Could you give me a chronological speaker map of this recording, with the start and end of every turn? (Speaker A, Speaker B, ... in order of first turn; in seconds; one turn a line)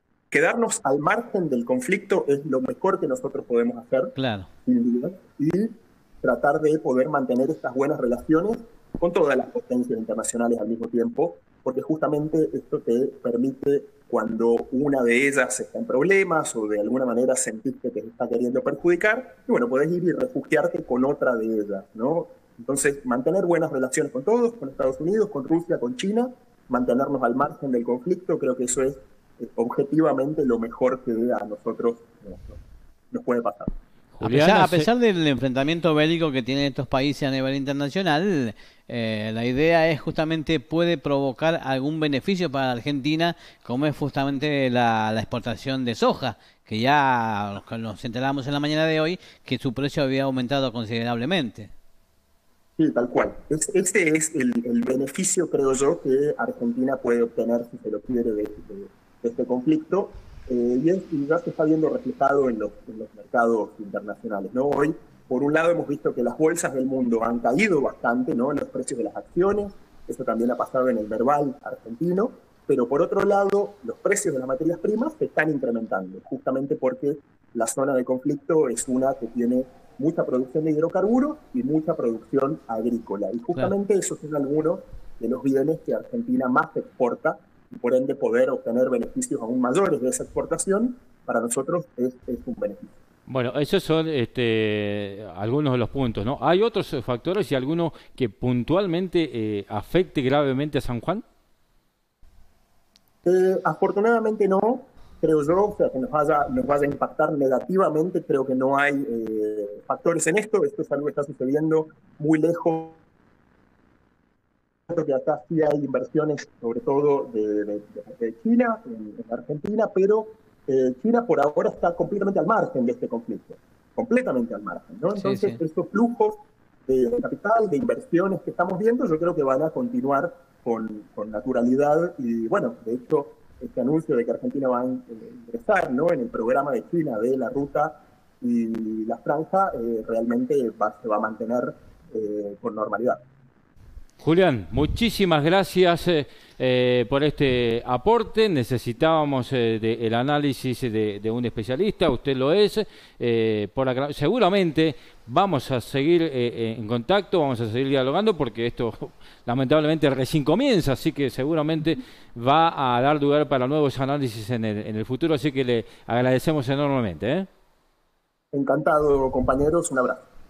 Speaker A: 0.3-33.7
Speaker B: 4.2-4.5
Speaker C: 34.2-34.9
Speaker B: 34.2-51.7
Speaker A: 52.8-93.0
Speaker C: 93.3-101.2
Speaker A: 103.2-113.0
Speaker A: 114.9-143.2
Speaker B: 125.2-125.6
Speaker C: 144.2-167.5
Speaker A: 168.5-170.3